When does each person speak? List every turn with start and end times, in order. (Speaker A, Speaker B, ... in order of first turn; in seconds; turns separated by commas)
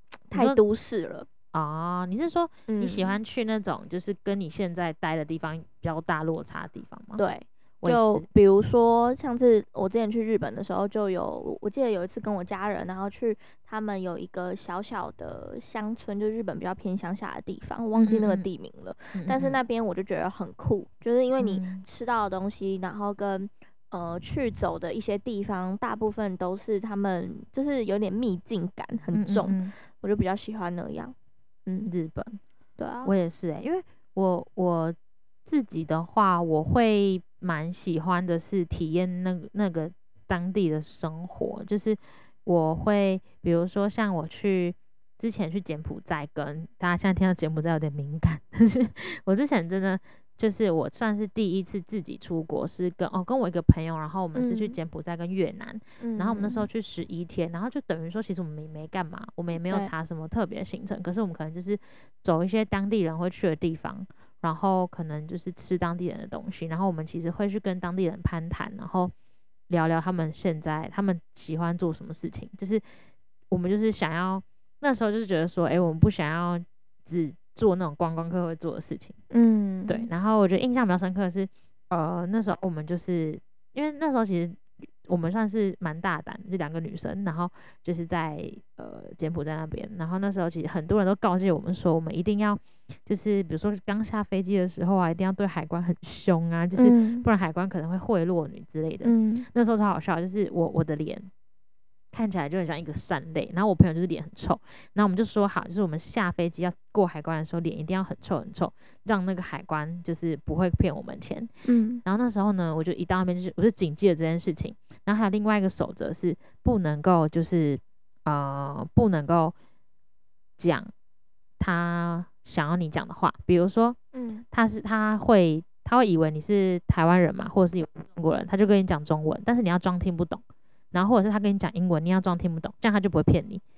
Speaker A: 0.3-1.3, Speaker B: 0.3-0.6, Speaker B: 1.5-7.2, Speaker A: 2.7-3.2, Speaker A: 7.2-31.1, Speaker B: 7.8-8.2, Speaker B: 17.9-18.5, Speaker B: 19.1-19.6, Speaker B: 21.4-21.8, Speaker B: 29.1-29.7, Speaker B: 31.9-32.4, Speaker A: 32.8-33.1, Speaker B: 33.0-69.1, Speaker A: 54.4-54.8, Speaker A: 56.0-56.7, Speaker B: 69.7-72.8, Speaker B: 73.5-79.2, Speaker A: 79.3-80.1, Speaker B: 79.9-101.3, Speaker A: 96.8-97.2, Speaker A: 99.0-99.5, Speaker B: 102.1-111.5, Speaker A: 111.7-112.0, Speaker B: 112.0-119.5, Speaker B: 120.6-120.9, Speaker B: 121.6-124.0, Speaker A: 124.1-124.5, Speaker B: 124.5-133.6